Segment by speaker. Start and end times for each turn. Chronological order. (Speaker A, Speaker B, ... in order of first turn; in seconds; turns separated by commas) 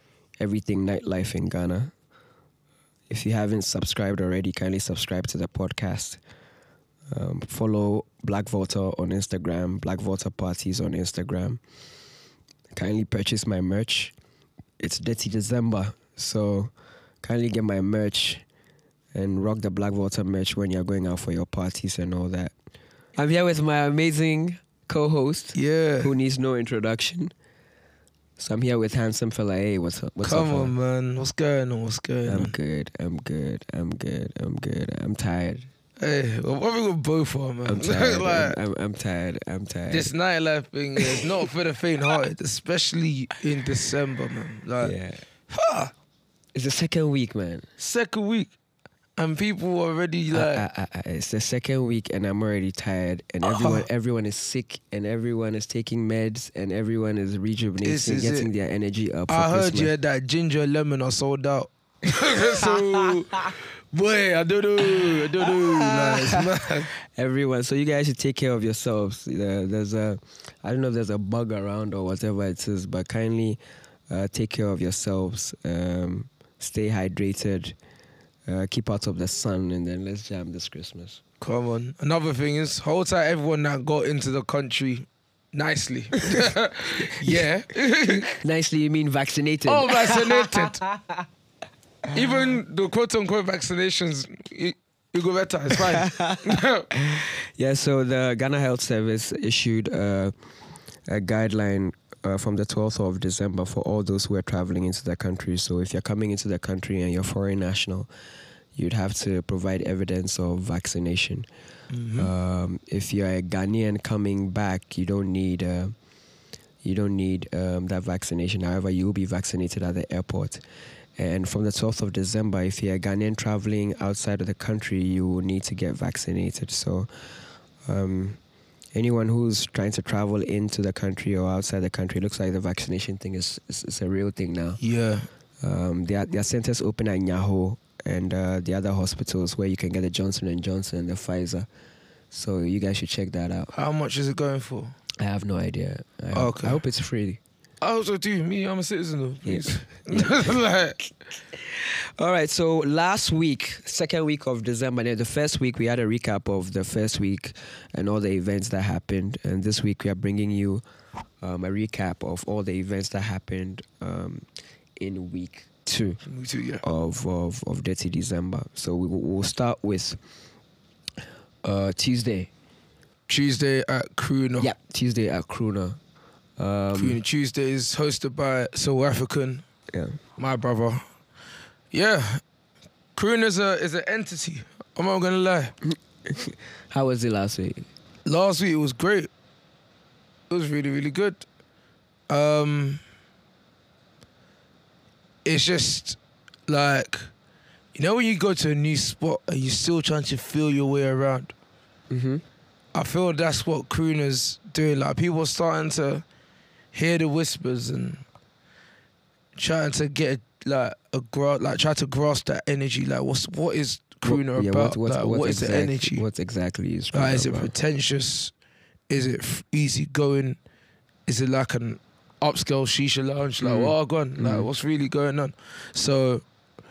Speaker A: 0.4-1.9, Speaker A: 3.1-6.2, Speaker A: 7.1-11.6, Speaker A: 12.7-14.1, Speaker A: 14.8-18.4, Speaker A: 19.1-22.5, Speaker A: 23.1-27.3, Speaker B: 25.5-26.1, Speaker A: 28.4-30.7, Speaker B: 30.2-32.5, Speaker A: 32.2-35.7, Speaker B: 36.0-38.5, Speaker A: 37.6-40.1, Speaker B: 39.9-44.9, Speaker A: 41.0-41.3, Speaker A: 44.8-45.2, Speaker B: 45.5-45.9, Speaker A: 46.5-47.6, Speaker B: 47.8-48.5, Speaker B: 49.2-50.6, Speaker A: 50.3-59.9, Speaker B: 53.4-53.9, Speaker B: 57.8-58.5, Speaker B: 59.3-66.9, Speaker A: 62.3-62.7, Speaker A: 64.8-66.5, Speaker A: 67.1-77.8, Speaker A: 78.5-81.2, Speaker B: 81.4-88.4, Speaker A: 88.4-91.1, Speaker B: 89.7-90.8, Speaker B: 92.1-96.9, Speaker A: 95.7-100.3, Speaker A: 101.1-108.1, Speaker A: 108.7-111.5, Speaker B: 111.9-112.3, Speaker A: 112.2-115.9, Speaker A: 116.8-120.6, Speaker A: 121.2-127.1, Speaker A: 127.8-128.4, Speaker A: 128.9-134.8, Speaker B: 134.8-135.3, Speaker A: 135.6-141.7, Speaker A: 142.3-143.7, Speaker B: 143.7-144.9, Speaker A: 145.2-147.4, Speaker B: 146.3-146.8, Speaker B: 147.8-151.0, Speaker A: 149.4-150.5, Speaker A: 151.5-160.8, Speaker A: 161.4-164.4, Speaker A: 165.0-166.2, Speaker B: 166.2-166.8, Speaker A: 166.8-170.2, Speaker A: 171.6-172.5, Speaker B: 173.3-174.7, Speaker A: 174.6-176.0, Speaker A: 176.6-177.2, Speaker B: 176.9-179.6, Speaker A: 179.9-180.2, Speaker B: 180.4-181.0, Speaker B: 181.9-182.4, Speaker B: 183.2-185.7, Speaker A: 185.9-187.9, Speaker B: 188.2-189.3, Speaker B: 190.5-191.4, Speaker B: 192.3-193.0, Speaker B: 195.4-197.3, Speaker B: 197.9-201.5, Speaker A: 202.1-202.4, Speaker B: 202.9-206.2, Speaker B: 206.9-208.2, Speaker B: 209.6-216.2, Speaker A: 214.2-217.7, Speaker B: 217.1-218.5, Speaker B: 219.1-220.6, Speaker B: 221.2-226.4, Speaker A: 223.6-224.7